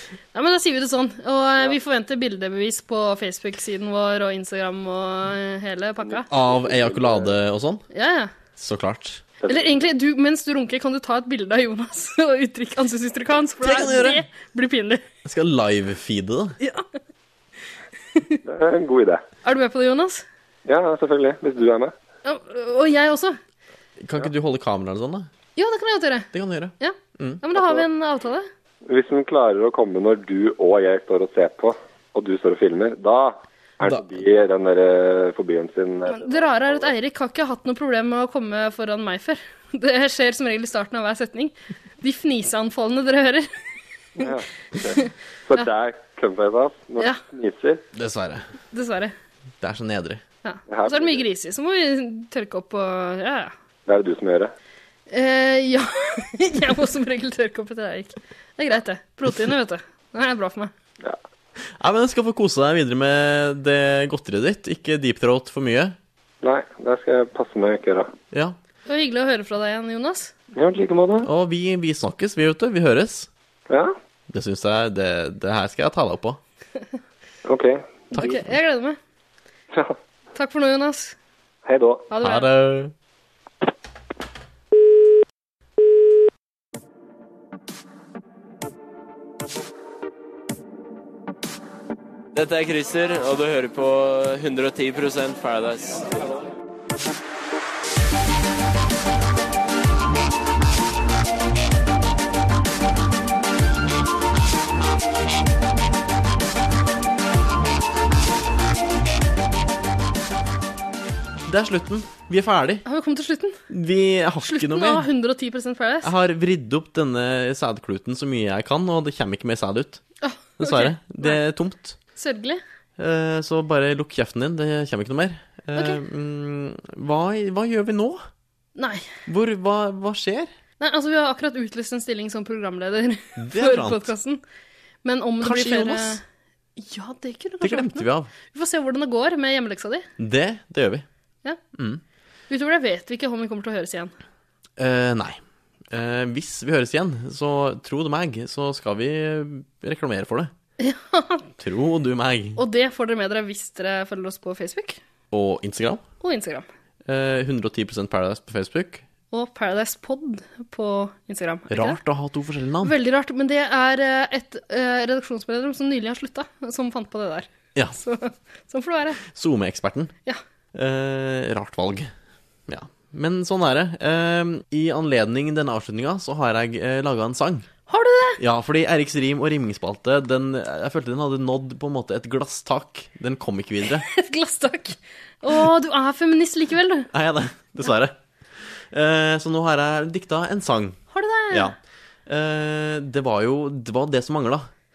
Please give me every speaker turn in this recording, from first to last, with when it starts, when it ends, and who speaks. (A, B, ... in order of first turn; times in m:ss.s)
0:00.3-0:06.2 A
0:06.0-0:07.3 B
0:06.3-0:07.8 C
0:07.9-0:08.3 A
0:08.6-0:09.2 C
0:09.4-0:09.7 B
0:09.5-0:15.0 A
0:13.6-0:14.3 C
0:15.2-0:16.6 C
0:16.6-0:16.9 A
0:18.1-0:18.4 A
0:18.4-0:19.2 B
0:19.4-0:20.2 A
0:20.6-0:21.9 B
0:22.2-0:23.4 A
0:24.0-0:25.3 C
0:25.6-0:28.5 A
0:26.3-0:27.4 C
0:27.5-0:27.8 B
0:28.9-0:36.9 B
0:33.8-0:34.2 C
0:36.1-0:43.5 A
0:44.2-0:47.8 B
0:44.8-0:45.1 A
0:47.9-0:48.4 C
0:48.7-0:49.1 A
0:49.6-0:50.2 C
0:50.4-0:53.5 A
0:50.7-0:51.2 B
0:53.8-0:54.5 B
0:55.1-1:00.7 A
1:01.8-1:06.0 C
1:06.4-1:08.1 B
1:08.3-1:08.6 C
1:08.9-1:10.3 A
1:10.5-1:11.3 B
1:11.2-1:13.3 C
1:14.3-1:16.4 C
1:17.4-1:18.0 B
1:18.1-1:18.4 C
1:18.1-1:19.0 A
1:20.3-1:21.2 A
1:21.6-1:22.1 B
1:22.1-1:22.5 A
1:22.2-1:22.9 C
1:32.3-1:36.1 D
1:51.5-1:52.8 C
1:52.8-1:53.6 A
1:53.7-1:55.1 C
1:54.4-1:56.1 A
1:56.0-2:00.0 C
2:00.2-2:01.4 A
2:00.6-2:02.0 C
2:02.2-2:02.6 A
2:03.0-2:08.2 C
2:05.7-2:06.0 A
2:08.8-2:09.1 A
2:09.3-2:10.5 C
2:10.8-2:14.4 A
2:13.4-2:14.1 C
2:15.0-2:16.2 A
2:15.4-2:16.2 C
2:16.8-2:20.1 A
2:17.6-2:18.3 C
2:20.2-2:21.0 C
2:21.7-2:22.0 C
2:22.5-2:24.1 A
2:24.8-2:30.5 C
2:30.8-2:31.5 A
2:31.6-2:32.6 C
2:32.6-2:35.0 A
2:35.3-2:36.0 C
2:36.2-2:36.7 A
2:37.0-2:39.0 C
2:39.3-2:42.0 A
2:41.7-2:42.9 C
2:42.8-2:49.2 A
2:49.2-2:50.1 C
2:50.7-2:52.1 C
2:52.7-2:57.7 C
2:57.9-2:58.4 A
2:58.4-3:04.0 C
3:04.0-3:07.1 A
3:07.1-3:11.0 C
3:11.1-3:11.7 A
3:11.5-3:14.7 C